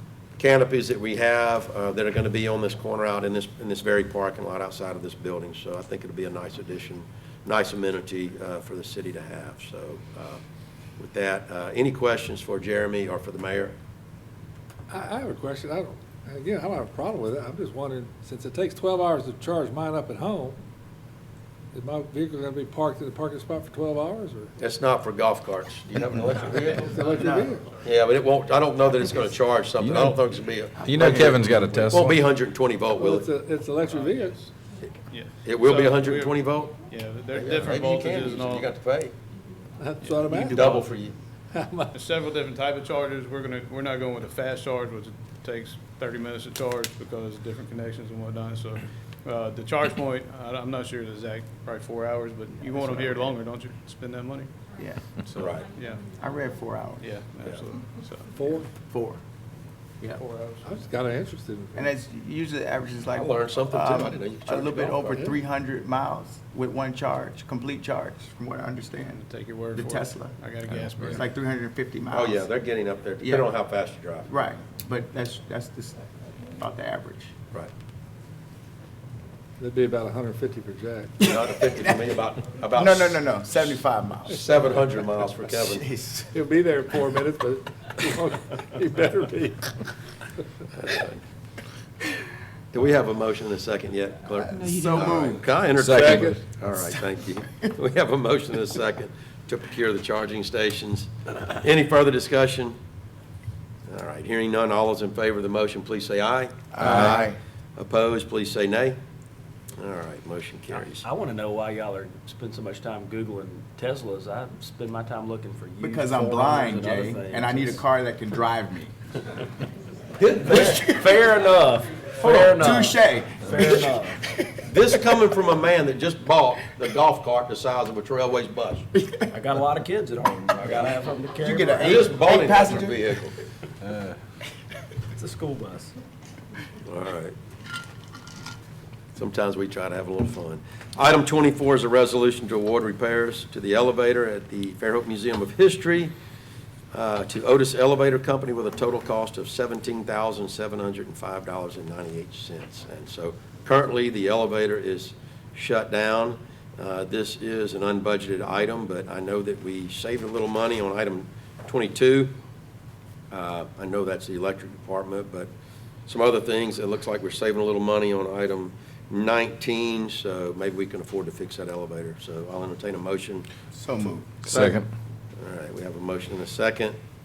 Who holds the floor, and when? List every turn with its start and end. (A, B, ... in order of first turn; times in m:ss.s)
0:00.4-0:10.4 A
0:11.0-0:13.8 A
0:14.9-0:20.6 B
0:21.7-0:24.5 B
0:24.6-0:27.0 A
0:26.6-0:27.7 B
0:27.0-0:27.6 C
0:27.8-0:33.3 A
0:29.8-0:30.3 D
0:30.8-0:32.2 D
0:30.9-0:31.8 C
0:33.0-0:34.5 B
0:33.9-0:34.5 E
0:35.1-0:38.7 E
0:35.4-0:36.8 A
0:37.3-0:39.1 A
0:39.8-0:40.9 B
0:40.0-0:40.7 E
0:40.3-0:41.2 A
0:41.5-0:42.0 B
0:41.9-0:54.6 E
0:52.7-0:53.3 C
0:54.8-0:55.1 C
0:55.2-0:56.0 E
0:55.4-0:55.7 A
0:56.2-0:57.2 C
0:57.0-0:58.3 E
0:58.3-0:58.7 B
0:58.7-0:59.2 C
1:00.2-1:00.8 E
1:00.6-1:01.9 B
1:01.8-1:10.5 C
1:03.1-1:05.2 A
1:09.1-1:11.3 E
1:10.7-1:11.2 D
1:11.0-1:12.5 C
1:12.1-1:14.3 A
1:13.2-1:13.5 C
1:14.3-1:17.3 C
1:19.6-1:21.1 B
1:21.2-1:22.2 C
1:21.2-1:23.2 A
1:22.7-1:24.4 C
1:24.3-1:25.9 A
1:25.6-1:26.3 C
1:26.3-1:29.8 B
1:30.7-1:31.2 A
1:32.7-1:42.8 A
1:34.4-1:35.5 C
1:35.8-1:36.4 D
1:35.9-1:36.4 B
1:43.9-1:49.0 A
1:46.8-1:47.4 C
1:49.8-1:51.1 A
1:50.7-1:57.8 F
1:55.8-1:58.9 C
2:00.2-2:04.3 F
2:00.4-2:01.2 C
2:02.2-2:02.6 A
2:02.5-2:04.6 C
2:04.6-2:08.9 A
2:09.3-2:12.3 F
2:11.4-2:13.1 C
2:11.8-2:13.4 A
2:15.1-2:16.0 F
2:16.9-2:17.3 A
2:19.2-2:26.1 A
2:26.9-2:42.4 A
2:43.3-2:45.5 A
2:46.1-2:53.5 A
2:53.7-2:54.5 C
2:54.5-2:54.9 D
2:55.4-2:57.0 A